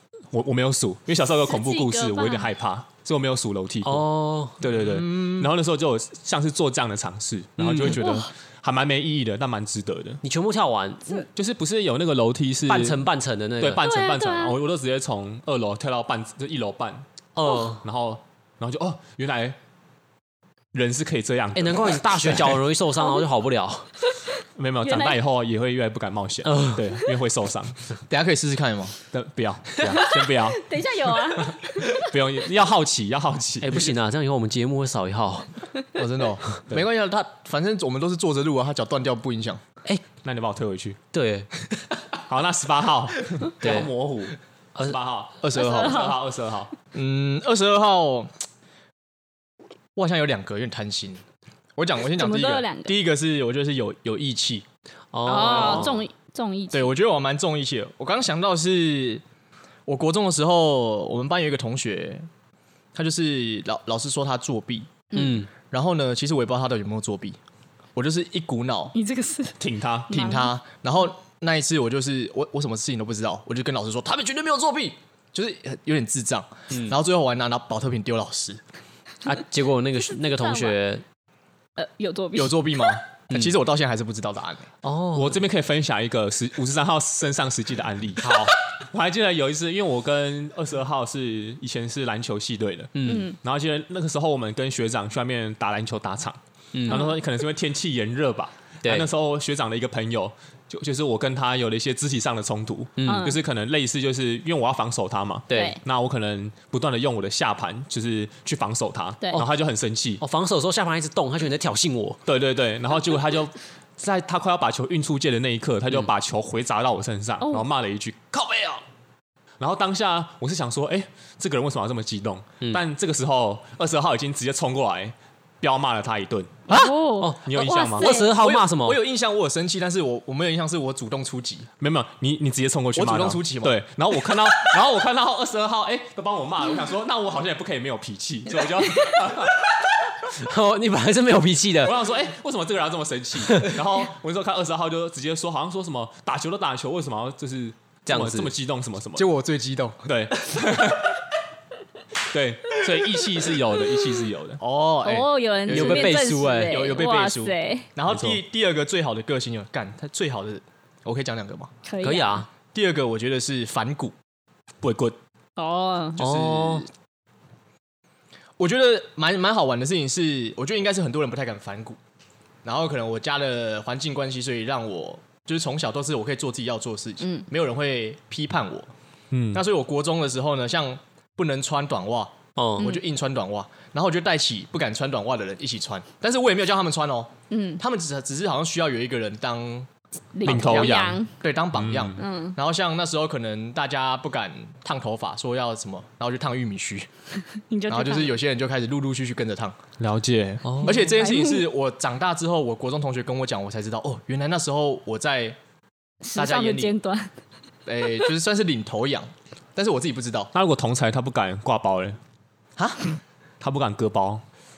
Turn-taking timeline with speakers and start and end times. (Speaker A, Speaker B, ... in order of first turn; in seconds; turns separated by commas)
Speaker A: 0.3-4.0, Speaker B: 1.4-2.5, Speaker C: 3.8-4.6, Speaker A: 4.6-10.2, Speaker D: 4.8-5.5, Speaker C: 7.6-8.0, Speaker B: 8.0-8.3, Speaker C: 10.2-11.2, Speaker A: 11.3-13.1, Speaker C: 12.7-13.8, Speaker A: 13.6-17.1, Speaker B: 13.7-14.6, Speaker C: 17.4-17.8, Speaker A: 17.8-19.6, Speaker A: 20.7-22.6, Speaker C: 21.5-23.9, Speaker B: 24.1-25.2, Speaker A: 24.6-27.9, Speaker C: 26.4-26.9, Speaker D: 28.1-29.0, Speaker A: 29.1-30.6, Speaker B: 29.8-32.1, Speaker A: 32.0-34.0, Speaker C: 33.6-35.5, Speaker D: 35.9-39.6, Speaker A: 40.2-41.0, Speaker C: 41.1-41.5, Speaker A: 42.2-46.7, Speaker C: 43.6-43.9, Speaker D: 45.4-46.1, Speaker B: 45.5-46.3, Speaker D: 46.9-48.3, Speaker D: 50.0-51.2, Speaker D: 51.8-54.6, Speaker B: 52.0-53.0, Speaker C: 55.1-56.1, Speaker B: 55.2-56.9, Speaker D: 55.3-55.9, Speaker D: 56.7-59.2, Speaker D: 59.9-62.3, Speaker D: 62.9-65.1, Speaker B: 65.1-65.3, Speaker C: 65.1-65.5, Speaker D: 65.7-67.4, Speaker D: 68.0-68.9, Speaker B: 68.9-70.5, Speaker A: 69.6-70.2, Speaker D: 70.1-78.6, Speaker C: 79.2-81.0, Speaker B: 80.2-80.8, Speaker B: 81.8-83.0, Speaker D: 82.3-84.7, Speaker C: 84.8-85.4, Speaker A: 85.1-110.2, Speaker C: 88.2-88.5, Speaker C: 92.9-93.3, Speaker B: 93.0-93.3, Speaker C: 96.7-97.0, Speaker B: 96.9-97.2, Speaker C: 98.8-99.1, Speaker C: 103.0-103.3, Speaker B: 103.0-103.4, Speaker C: 105.5-105.8, Speaker B: 105.5-105.8, Speaker C: 110.2-112.2, Speaker A: 112.3-118.8, Speaker B: 117.4-117.7, Speaker A: 119.6-126.6, Speaker B: 126.7-128.3, Speaker C: 127.2-129.0, Speaker A: 127.4-128.1, Speaker D: 128.1-131.7, Speaker A: 131.8-139.7, Speaker D: 132.9-133.8, Speaker C: 140.2-141.9, Speaker A: 141.8-149.3, Speaker C: 143.4-143.7, Speaker C: 148.1-148.5, Speaker D: 149.2-150.1, Speaker A: 150.1-151.2, Speaker A: 152.3-154.6, Speaker D: 154.6-161.7, Speaker B: 155.0-157.9, Speaker C: 155.7-156.8, Speaker A: 158.1-158.4, Speaker B: 161.8-162.4, Speaker C: 162.0-162.5, Speaker D: 162.7-164.1, Speaker A: 164.8-165.2, Speaker B: 165.6-166.2, Speaker D: 166.2-166.9, Speaker C: 166.2-166.8, Speaker D: 168.6-172.0, Speaker D: 172.6-178.9, Speaker B: 177.2-177.5, Speaker A: 179.3-179.6, Speaker D: 179.5-189.9, Speaker C: 182.6-182.9, Speaker B: 187.5-187.8, Speaker B: 190.3-191.3, Speaker A: 190.4-191.2, Speaker D: 190.4-197.1, Speaker A: 191.7-192.2, Speaker B: 192.2-192.6, Speaker B: 197.7-198.4, Speaker D: 197.9-199.8, Speaker A: 200.0-200.7, Speaker C: 200.7-201.1, Speaker D: 200.8-205.6, Speaker B: 200.9-201.7, Speaker B: 206.2-207.3, Speaker D: 206.3-206.9, Speaker D: 207.8-210.5, Speaker A: 210.5-212.2, Speaker D: 212.8-213.1, Speaker A: 213.6-214.4